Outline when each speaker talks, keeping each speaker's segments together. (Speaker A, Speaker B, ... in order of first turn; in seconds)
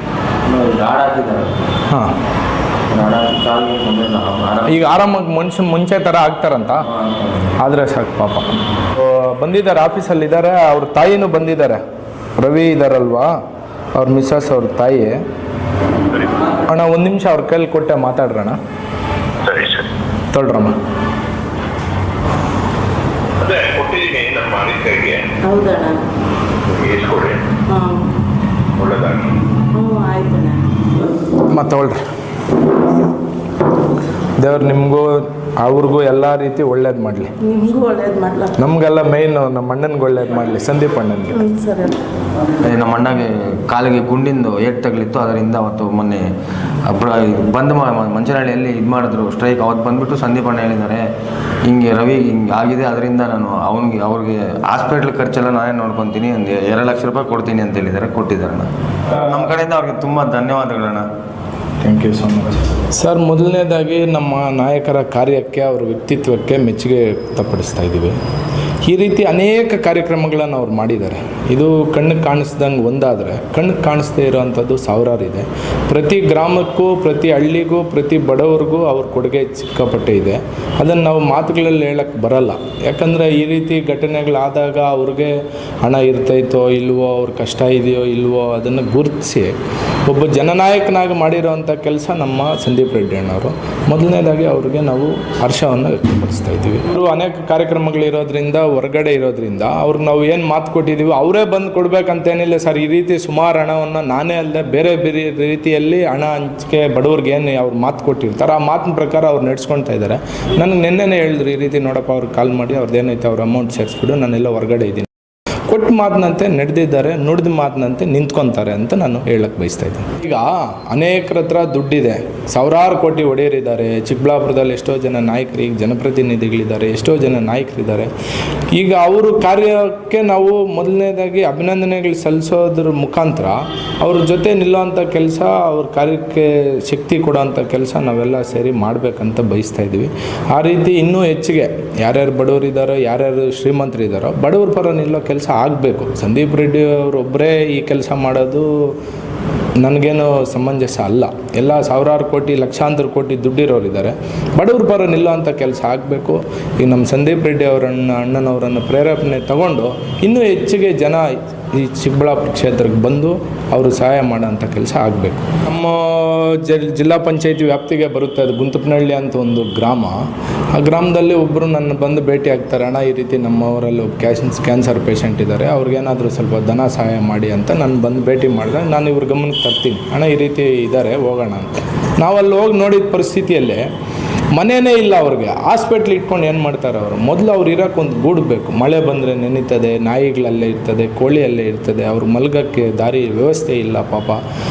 Speaker A: 0.4-1.7, 2.9-5.0, 6.9-7.5, 42.5-46.3, 46.9-51.0, 51.6-61.1
Speaker B: 1.9-2.1, 4.7-6.9, 7.6-11.8, 12.4-13.4, 13.9-15.2, 16.6-18.6, 20.3-20.8, 31.4-32.0, 34.4-37.3, 38.6-41.5, 61.8-68.2, 68.8-89.5, 90.1-115.1, 115.7-128.1, 128.7-148.9, 149.8-183.8, 184.5-194.4
Speaker C: 16.1-16.6, 19.4-19.9, 23.4-25.3, 26.7-27.6, 28.7-29.4
Speaker D: 25.4-26.0, 27.7-28.1, 29.7-30.7, 37.4-38.5, 41.4-42.0